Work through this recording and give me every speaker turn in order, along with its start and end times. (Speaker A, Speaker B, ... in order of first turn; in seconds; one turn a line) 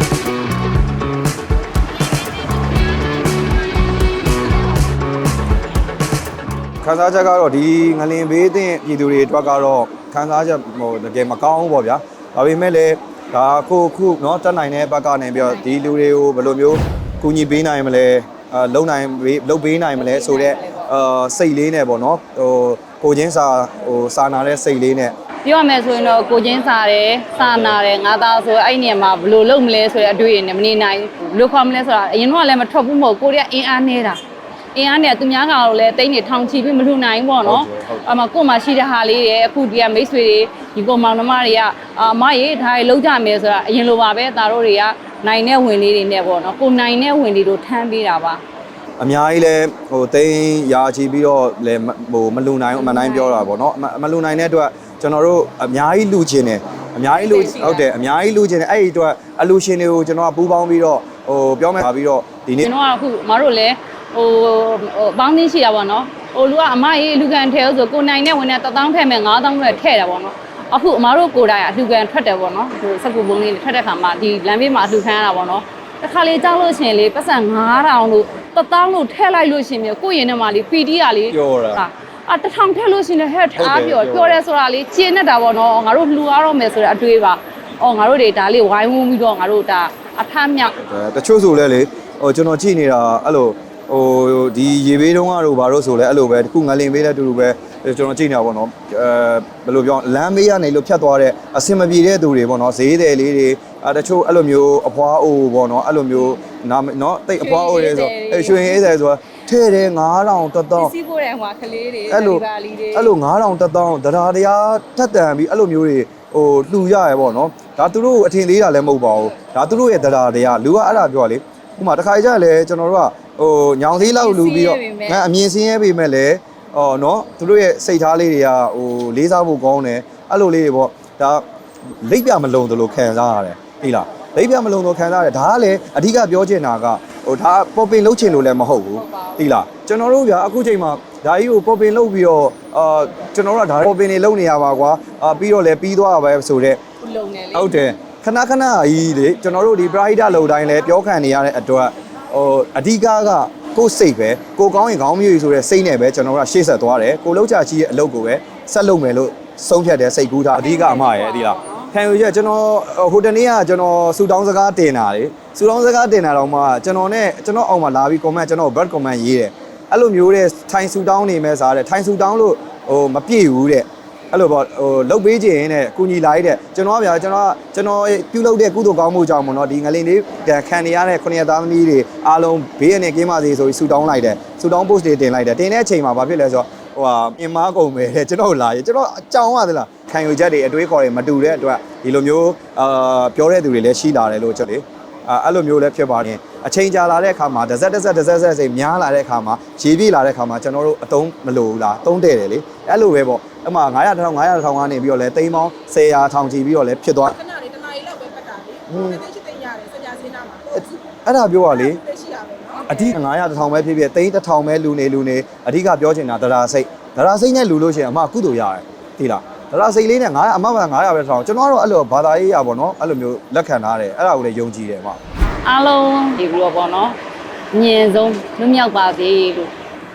Speaker A: 6.8-25.1
Speaker B: 20.0-20.9
Speaker B: 25.4-34.2
Speaker A: 27.4-27.8
Speaker B: 34.8-48.4
Speaker A: 37.5-38.1
Speaker A: 49.0-62.7
Speaker B: 52.7-53.5
Speaker B: 57.1-57.9
Speaker B: 62.6-90.8
Speaker A: 81.3-81.8
Speaker A: 83.6-84.4
Speaker A: 90.7-110.9
Speaker B: 107.4-108.9
Speaker B: 110.8-113.2
Speaker A: 112.1-131.4
Speaker B: 124.0-125.2
Speaker A: 132.0-146.8
Speaker B: 139.1-139.4
Speaker B: 147.0-147.8
Speaker A: 147.5-207.5
Speaker B: 160.5-161.9
Speaker C: 207.6-208.8
Speaker A: 208.9-209.3
Speaker C: 209.4-210.6
Speaker A: 210.7-212.0
Speaker C: 212.3-212.7
Speaker A: 212.8-225.2
Speaker B: 225.6-227.2
Speaker B: 227.7-229.7